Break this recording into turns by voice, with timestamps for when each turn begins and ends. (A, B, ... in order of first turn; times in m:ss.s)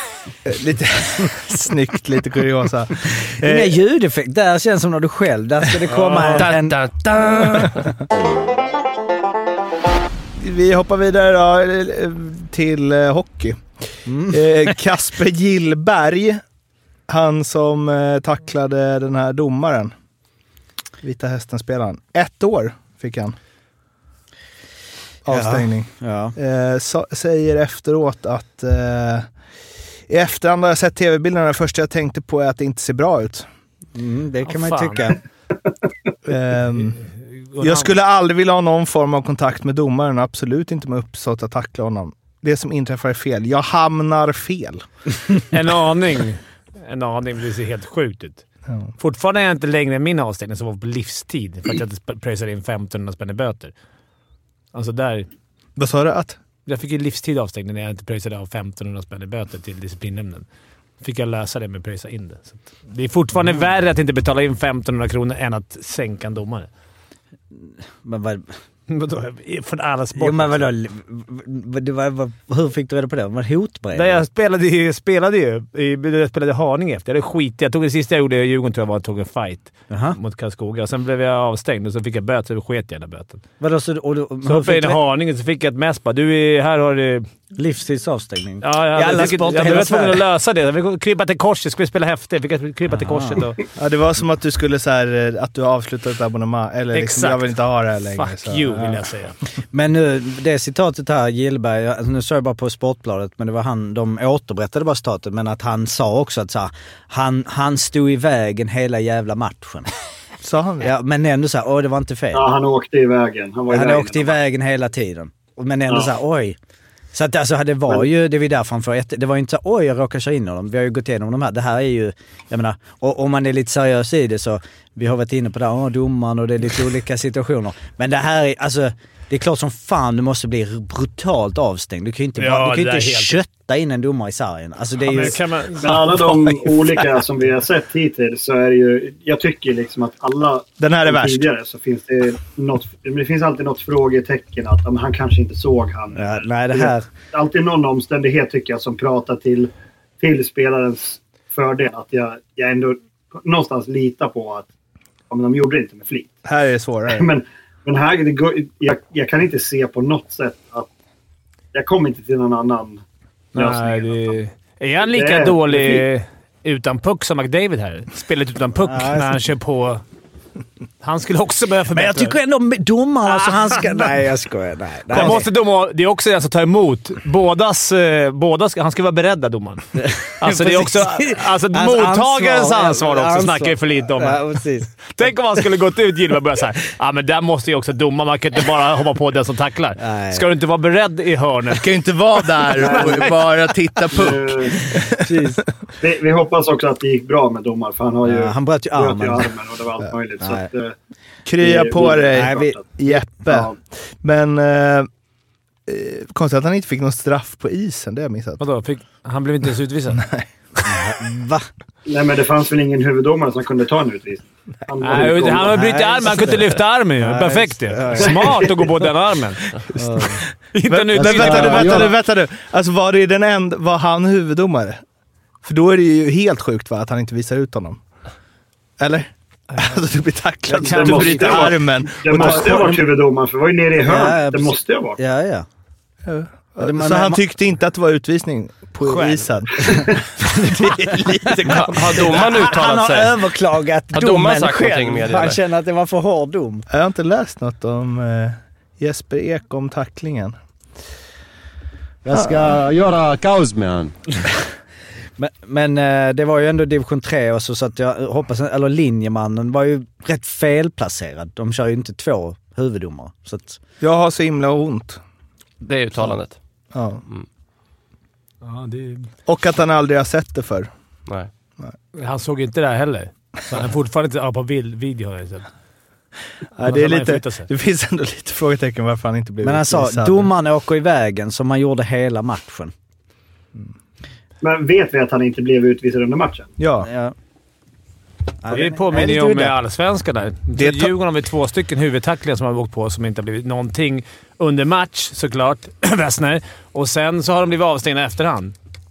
0:00.4-0:03.6 A
0:03.4-0:06.8 B
0:05.9-0:06.5 C
0:06.3-0:07.9 D
0:10.4-0:13.6 A
0:14.0-0:14.5 B
0:14.3-0:16.4 A
0:17.1-0:19.9 A
0:21.0-0:23.4 A
0:25.2-0:29.3 A
0:25.3-0:26.3 B
0:30.1-0:33.4 A
0:33.9-0:35.2 B
0:34.4-0:35.1 C
0:36.2-0:37.0 A
0:37.5-0:37.9 C
0:37.6-0:44.8 A
0:45.5-0:48.4 C
0:49.0-0:53.7 C
0:54.7-0:55.3 C
0:55.8-0:56.4 A
0:56.6-1:00.4 C
1:01.0-1:06.7 C
1:07.5-1:08.5 B
1:08.9-1:10.7 C
1:10.2-1:14.2 B
1:13.9-1:23.4 C
1:19.9-1:20.2 B
1:23.6-1:25.0 B
1:24.4-1:27.3 C
1:27.5-1:30.2 B
1:28.6-1:33.6 C
1:32.9-1:33.4 B
1:33.8-1:39.0 A
1:36.9-1:37.6 C
1:38.1-1:39.3 C
1:39.7-1:49.9 B
1:50.4-1:50.9 A
1:50.8-1:52.4 B
1:52.3-1:54.4 E
1:53.7-1:56.6 B
1:57.1-2:15.4 B
2:12.4-2:13.4 C
2:15.1-2:16.0 C
2:15.8-2:34.7 E
2:16.6-2:17.0 A
2:20.8-2:21.5 A
2:26.1-2:27.0 B
2:35.3-2:36.3 E
2:36.4-2:37.3 A
2:37.1-2:40.9 E
2:41.7-2:43.0 E
2:43.5-2:44.3 E
2:43.5-2:50.0 C
2:45.0-2:46.0 E
2:48.8-2:49.4 B
2:51.0-2:52.4 C
2:51.9-2:55.4 B
2:53.3-2:54.0 C
2:55.1-2:59.9 C
2:55.2-2:55.4 A
3:00.0-3:05.1 B
3:00.4-3:04.4 C
3:05.0-3:11.8 C
3:10.0-3:10.4 B
3:11.8-3:15.5 A
3:12.8-3:13.3 E
3:13.0-3:13.3 C
3:14.1-3:14.8 E
3:15.2-3:15.6 B
3:16.0-3:20.9 E
3:18.2-3:19.5 B
3:21.4-3:25.1 A
3:21.6-3:23.7 E
3:22.3-3:22.8 B
3:25.9-3:28.6 A
3:28.6-3:30.2 C
3:30.2-3:30.5 A
3:30.8-3:31.7 B
3:32.1-3:35.8 E
3:35.0-3:39.6 C
3:35.7-3:38.6 B
3:38.2-3:38.6 E
3:40.0-3:40.4 B
3:40.0-3:45.0 A
3:40.7-3:42.1 C
3:41.2-3:42.1 F
3:45.6-3:48.0 A
3:49.0-3:53.0 A
3:50.7-3:51.7 C
3:50.8-3:55.2 E
3:54.0-3:55.6 B
3:56.2-4:02.2 A
3:56.8-3:57.4 B
3:59.0-3:59.4 C
4:01.7-4:03.4 D
4:02.0-4:06.8 B
4:04.1-4:05.6 D
4:06.9-4:10.5 A
4:12.2-4:14.2 F
4:12.3-4:12.7 A
4:15.4-4:23.8 B
4:24.0-4:25.2 A
4:25.8-4:26.6 D
4:26.9-4:27.2 A
4:28.6-4:29.3 C
4:29.4-4:30.9 A
4:32.1-4:35.7 C
4:36.8-4:40.5 A
4:36.8-4:37.7 C
4:39.6-4:42.9 B
4:44.6-4:46.7 E
4:46.8-4:47.1 A
4:47.0-4:47.3 B
4:48.6-4:49.8 B
4:48.7-4:58.7 C
4:50.7-4:51.1 A